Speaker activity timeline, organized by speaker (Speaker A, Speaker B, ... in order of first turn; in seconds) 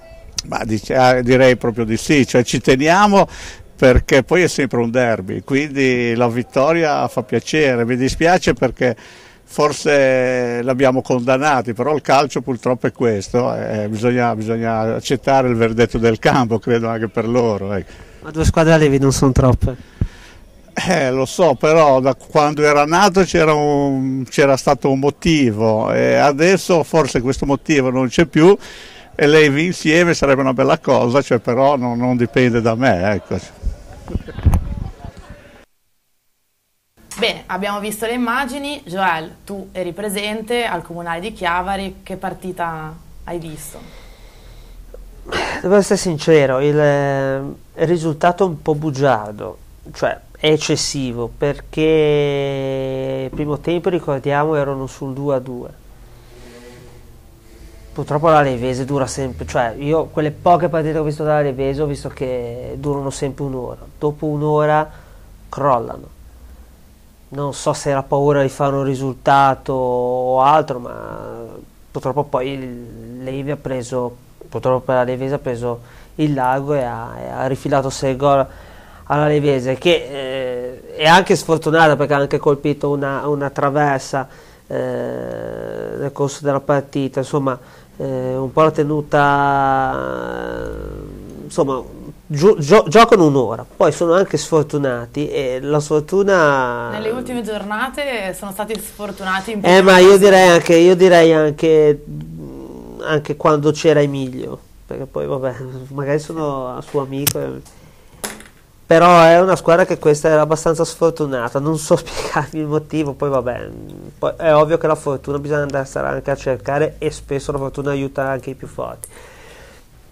Speaker A: 0.5-9.0, 9.5-17.9, 20.8-28.6, 29.2-33.5
Speaker B: 18.2-19.8, 45.3-55.8, 57.9-64.9, 65.5-66.1, 67.3-78.5, 79.1-97.3, 99.6-107.6, 108.9-119.1
Speaker C: 37.2-43.9, 96.9-100.5